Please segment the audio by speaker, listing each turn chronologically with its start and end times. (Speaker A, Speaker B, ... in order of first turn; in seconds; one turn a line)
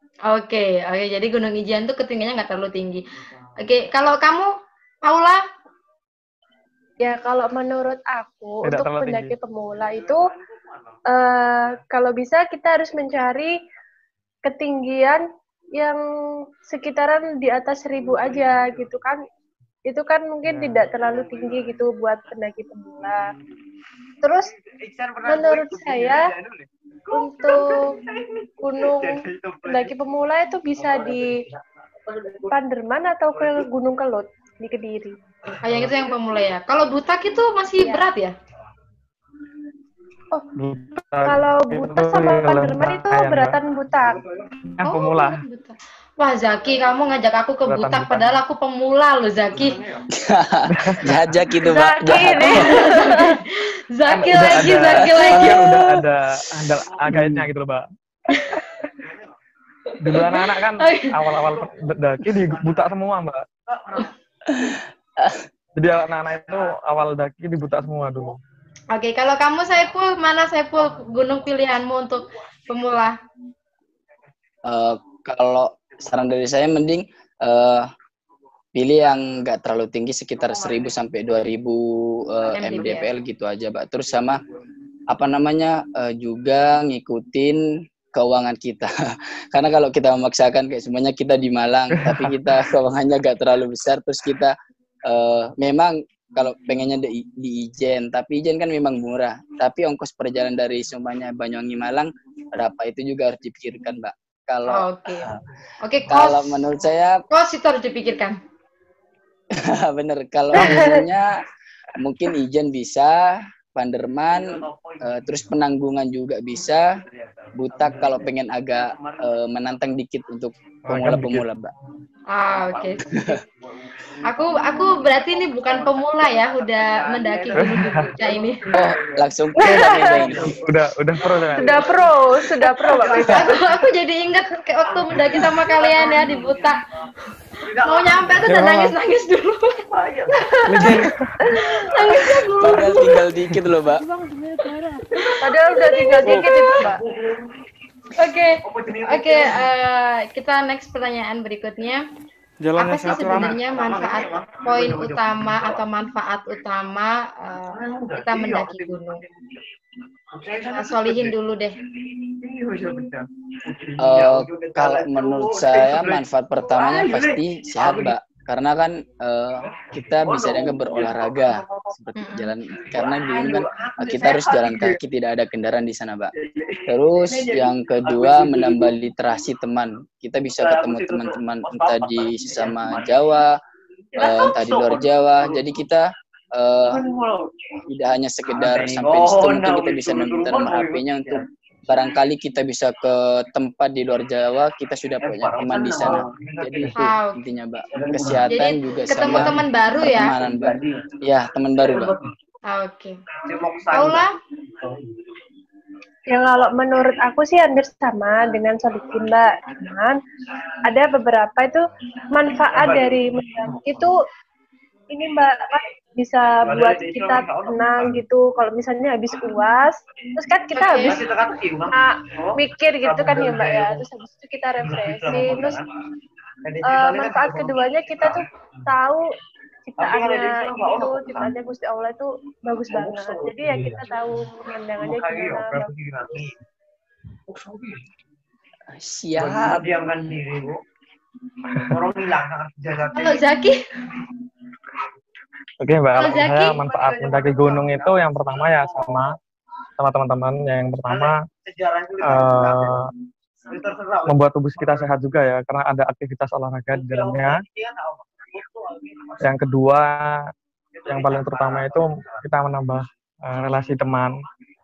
Speaker A: 0.3-3.0
Speaker A: 3.6-4.5
Speaker A: 5.0-5.4
Speaker B: 7.0-10.2
Speaker C: 8.6-9.4
Speaker D: 9.8-11.0
Speaker B: 11.1-13.6
Speaker B: 14.5-15.2
Speaker B: 15.8-16.0
Speaker B: 16.7-19.2
Speaker D: 18.0-18.9
Speaker B: 19.9-23.3
Speaker C: 20.4-20.9
Speaker D: 20.9-21.8
Speaker D: 23.0-23.4
Speaker B: 24.2-24.5
Speaker D: 24.4-30.0
Speaker B: 25.3-26.3
Speaker B: 27.1-27.9
Speaker B: 28.6-31.3
Speaker D: 30.8-32.5
Speaker B: 32.5-35.2
Speaker D: 33.3-33.7
Speaker D: 35.5-36.3
Speaker A: 35.6-38.4
Speaker B: 37.8-38.1
Speaker C: 40.6-43.6
Speaker B: 41.2-44.2
Speaker C: 44.7-45.4
Speaker A: 44.8-49.8
Speaker C: 47.6-48.4
Speaker D: 49.5-50.1
Speaker E: 50.1-52.9
Speaker C: 50.7-51.3
Speaker B: 51.6-53.4
Speaker A: 52.4-55.7
Speaker C: 54.1-57.9
Speaker E: 55.0-56.0
Speaker D: 56.9-57.2
Speaker A: 58.3-58.6
Speaker D: 58.8-59.4
Speaker C: 60.0-63.5
Speaker A: 60.1-61.1
Speaker D: 61.5-61.8
Speaker D: 62.3-62.9
Speaker D: 63.7-64.1
Speaker E: 64.5-65.4
Speaker C: 65.8-68.4
Speaker D: 66.4-66.8
Speaker A: 68.9-73.2
Speaker D: 70.9-71.5
Speaker E: 74.7-77.9
Speaker E: 78.8-84.4
Speaker D: 80.3-81.0
Speaker A: 82.5-83.1
Speaker D: 82.7-83.1
Speaker E: 85.1-88.9
Speaker E: 89.5-94.5
Speaker C: 91.9-92.5
Speaker E: 95.1-105.4
Speaker A: 104.7-106.7
Speaker E: 106.1-107.2
Speaker A: 107.3-108.4
Speaker E: 109.5-111.4
Speaker B: 110.5-111.1
Speaker E: 112.0-117.0
Speaker D: 114.3-115.5
Speaker D: 116.7-119.4
Speaker E: 117.6-121.7
Speaker C: 120.9-121.5
Speaker A: 122.3-123.3
Speaker D: 122.5-129.1
Speaker E: 123.1-123.4
Speaker A: 124.2-128.7
Speaker C: 127.6-128.0
Speaker E: 128.7-130.6
Speaker B: 129.6-130.4
Speaker D: 129.7-133.8
Speaker C: 130.5-131.8
Speaker B: 131.5-133.6
Speaker A: 133.3-136.8
Speaker D: 134.8-136.8
Speaker D: 137.6-138.6
Speaker A: 137.8-139.8
Speaker C: 138.4-138.9
Speaker D: 139.9-141.0
Speaker B: 140.4-142.1
Speaker C: 140.7-141.3
Speaker A: 141.5-143.2
Speaker D: 141.8-142.4
Speaker E: 142.6-144.0
Speaker D: 145.2-145.4
Speaker A: 145.2-146.8
Speaker B: 145.4-147.0
Speaker C: 146.2-146.5
Speaker D: 146.8-147.5
Speaker A: 148.2-152.0
Speaker D: 148.6-149.7
Speaker C: 152.6-153.6
Speaker A: 152.8-159.2
Speaker D: 153.6-155.8
Speaker D: 157.7-159.6
Speaker D: 160.3-161.3
Speaker A: 160.7-161.8
Speaker D: 162.0-168.2
Speaker E: 164.0-176.3
Speaker D: 169.6-172.0
Speaker A: 172.2-172.5
Speaker D: 172.8-175.0
Speaker D: 176.4-178.9
Speaker E: 176.9-183.6
Speaker D: 180.6-183.4
Speaker D: 184.1-185.7
Speaker E: 184.2-187.1
Speaker D: 186.8-187.8
Speaker E: 187.9-202.2
Speaker D: 188.5-191.5
Speaker D: 195.2-197.0
Speaker A: 197.0-197.4
Speaker D: 197.9-198.5
Speaker A: 198.5-200.4
Speaker D: 199.2-199.6
Speaker D: 200.3-201.1
Speaker D: 201.8-202.3
Speaker A: 202.7-203.2
Speaker D: 203.5-205.1
Speaker A: 203.9-204.3
Speaker B: 206.3-210.2
Speaker B: 210.8-214.1
Speaker D: 212.7-214.0
Speaker B: 215.1-221.3
Speaker D: 216.6-218.2
Speaker A: 220.8-221.2
Speaker D: 221.0-224.1
Speaker B: 221.8-225.8
Speaker D: 224.8-225.9
Speaker D: 226.6-228.8
Speaker B: 226.8-229.3
Speaker B: 229.9-235.9
Speaker D: 230.0-231.6
Speaker D: 232.9-234.2
Speaker D: 235.0-236.6
Speaker D: 237.5-238.0
Speaker E: 238.9-239.9
Speaker D: 239.4-240.8
Speaker D: 241.8-243.4
Speaker A: 243.2-243.8
Speaker C: 245.8-249.3
Speaker A: 246.2-246.8
Speaker D: 246.5-249.2
Speaker C: 250.0-251.4
Speaker D: 251.1-253.1
Speaker C: 252.2-253.1
Speaker D: 253.7-255.1
Speaker C: 254.3-257.6
Speaker D: 256.9-259.5
Speaker C: 259.4-260.4
Speaker D: 260.9-262.5
Speaker C: 261.1-264.4